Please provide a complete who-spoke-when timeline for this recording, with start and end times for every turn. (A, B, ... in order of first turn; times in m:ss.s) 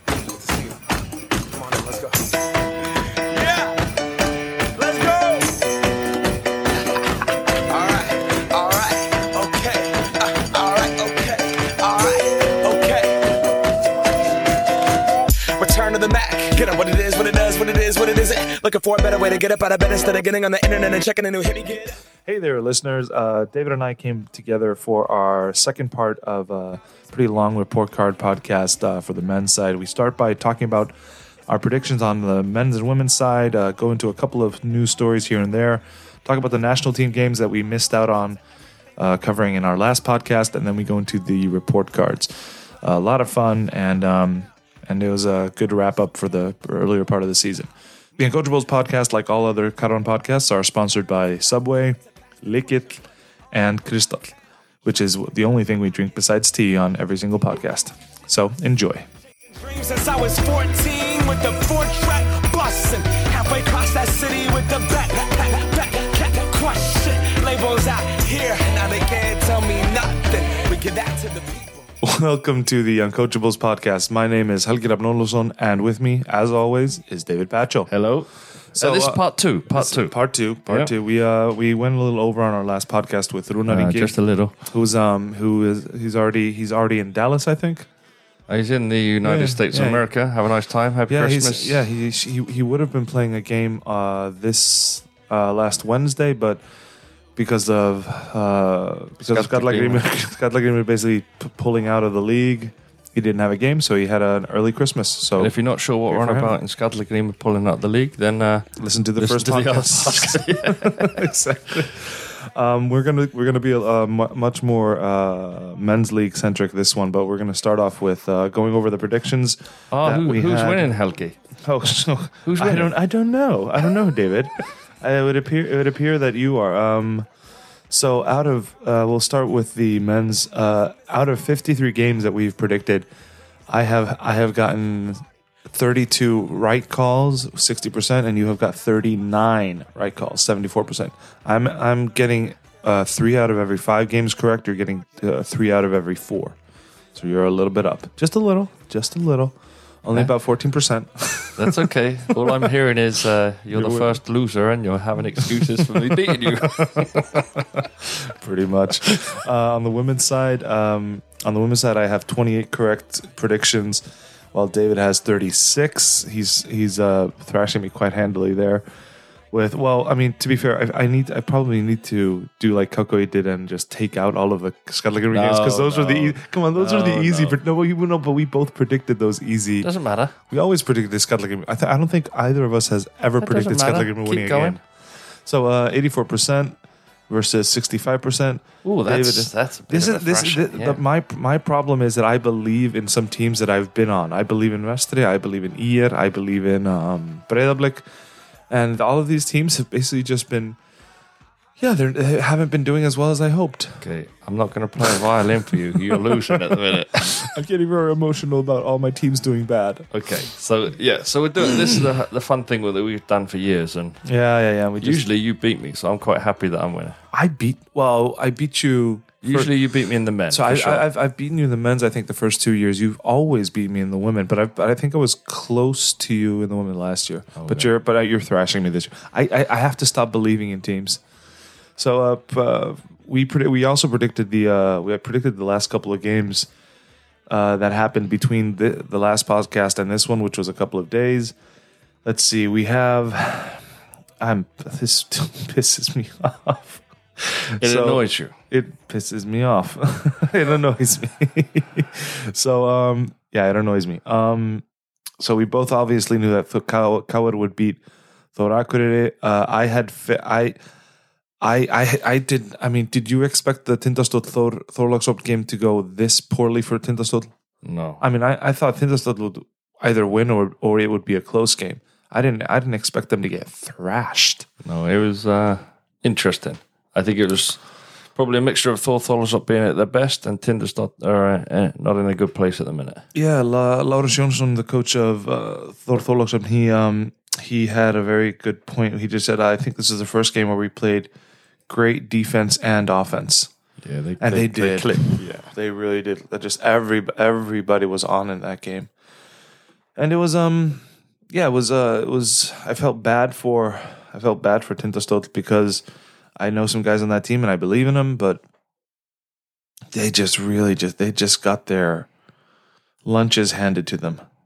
0:01.5-0:02.4 A
0:03.1-0:03.8 A
0:04.7-0:05.6 A
0:07.7-0:13.4 A
0:15.6-0:22.0 A
0:22.3-0:31.0 B
0:31.5-0:38.4 B
0:39.0-0:59.1 B
0:59.5-1:11.9 A
1:12.0-1:17.9 B
1:17.9-1:20.9 C
1:18.7-1:27.9 B
1:23.7-1:24.6 C
1:28.5-1:31.8 C
1:29.2-1:30.1 B
1:31.1-1:36.7 B
1:37.4-1:46.6 B
1:39.3-1:40.1 C
1:45.4-1:51.2 C
1:48.8-2:01.0 B
1:59.9-2:01.4 C
2:01.6-2:07.3 B
2:02.4-2:03.0 C
2:07.9-2:13.1 B
2:13.7-2:26.6 B
2:27.2-2:31.8 B
2:31.6-2:37.4 C
2:32.4-2:32.7 B
2:33.7-2:34.1 B
2:36.6-2:37.1 B
2:38.3-2:48.9 B
2:49.5-2:59.9 B
2:55.3-2:57.6 C
2:59.8-3:00.4 C
3:00.4-3:18.1 B
3:03.4-3:04.8 C
3:08.8-3:11.0 C
3:18.7-3:20.8 B
3:21.8-3:24.1 B
3:24.0-3:27.5 C
3:26.0-3:30.1 B
3:30.1-3:34.2 C
3:34.2-3:35.2 B
3:35.0-3:37.2 C
3:37.3-3:39.7 B
3:39.4-3:41.1 C
3:40.5-3:51.2 B
3:47.6-3:47.9 C
3:52.0-3:56.7 B
3:57.5-4:01.6 B
4:02.2-4:03.8 B
4:04.4-4:14.8 B
4:07.8-4:08.6 C
4:15.4-4:18.0 B
4:18.6-4:20.8 B
4:21.6-4:27.5 B
4:27.8-4:28.2 C
4:28.2-4:34.7 B
4:34.8-4:43.2 C
4:43.3-4:51.3 B
4:51.9-4:53.7 B
4:54.0-4:55.7 C
4:54.4-4:59.1 B
5:00.2-5:06.0 B
5:06.6-5:08.6 B
5:10.1-5:12.3 B
5:13.2-5:14.4 B